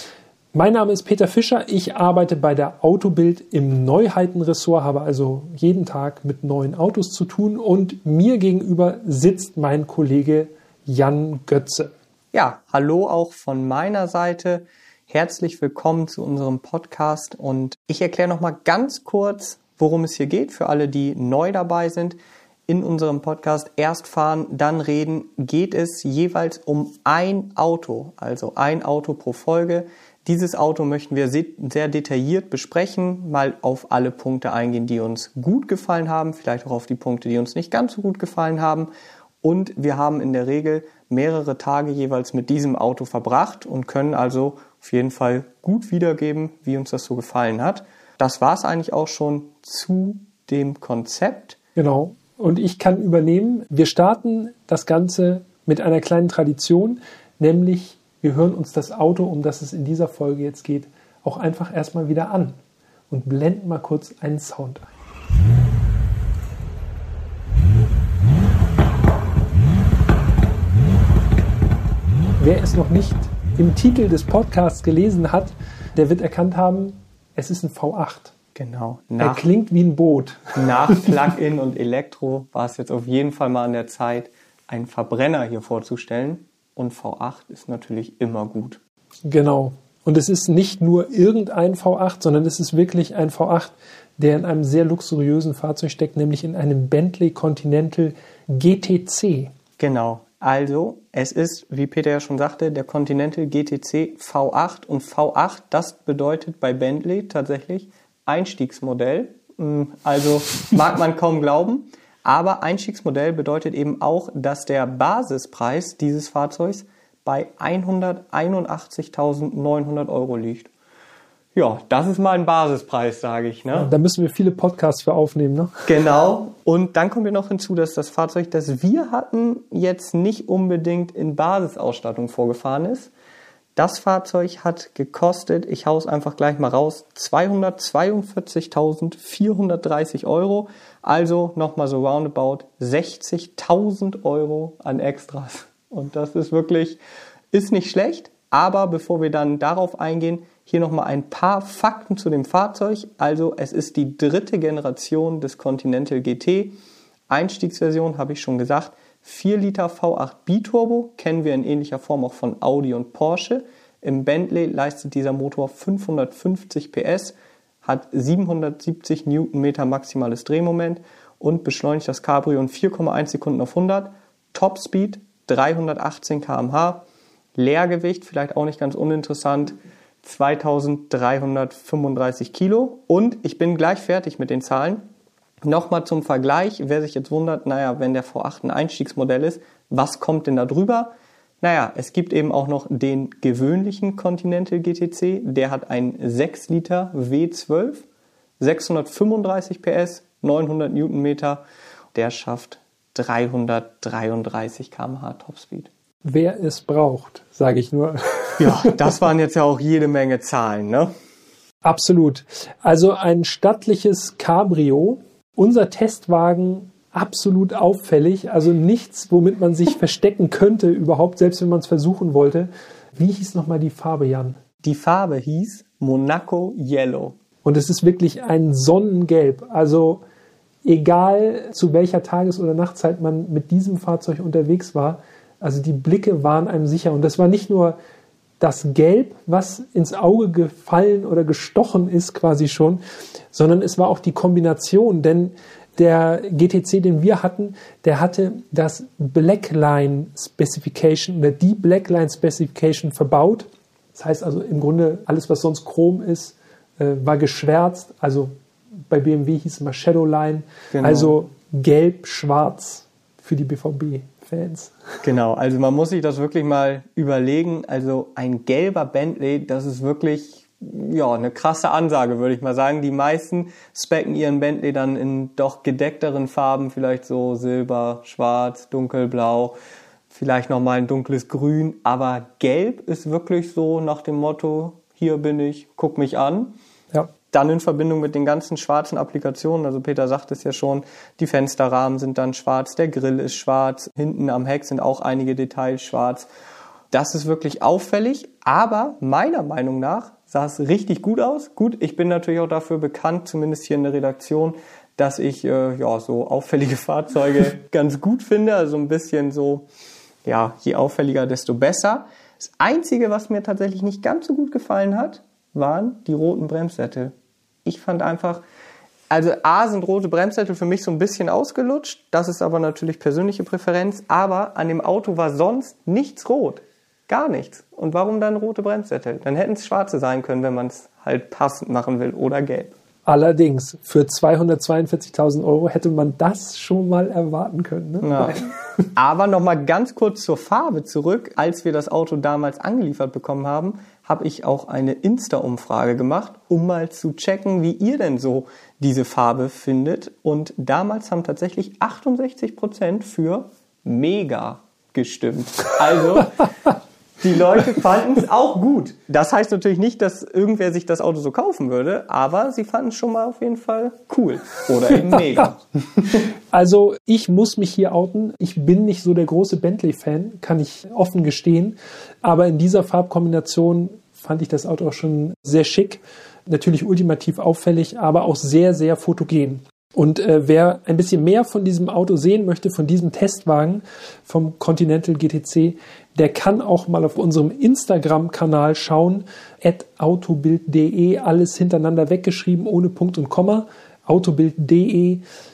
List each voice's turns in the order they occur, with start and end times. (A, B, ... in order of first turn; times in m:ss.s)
0:00.5-0:11.9 A
0:12.3-0:22.2 B
0:22.7-0:38.9 B
0:39.4-0:51.6 B
0:51.8-1:02.6 A
1:03.1-1:04.9 A
1:12.4-1:18.3 A
1:18.5-1:19.4 B
1:19.2-1:21.2 A
1:20.5-1:28.8 B
1:29.3-1:39.5 A
1:39.8-2:00.7 B
2:01.5-2:03.9 B
2:03.7-2:05.8 A
2:05.8-2:13.1 B
2:13.8-2:27.0 B
2:27.5-2:36.7 B
2:37.3-2:57.0 B
2:57.5-3:05.0 B
3:05.6-3:18.0 B
3:18.6-3:21.6 B
3:22.1-3:25.9 B
3:26.2-3:29.1 A
3:28.6-3:31.1 B
3:31.8-3:44.6 A
3:44.8-3:47.4 B
3:47.6-3:50.2 A
3:50.8-3:58.0 A
3:58.6-4:03.0 A
4:03.5-4:18.5 A
4:19.1-4:25.0 A
4:20.9-4:21.4 B
4:25.2-4:39.7 B
4:40.3-4:46.7 B
4:47.5-4:56.5 B
4:57.1-5:09.9 B
5:10.4-5:17.3 B
5:17.8-5:18.6 B
5:19.3-5:32.9 B
5:33.2-5:39.0 A
5:38.2-5:38.6 B
5:39.2-5:56.7 B
5:57.4-6:06.5 B
6:05.2-6:05.6 A
6:06.7-6:35.4 A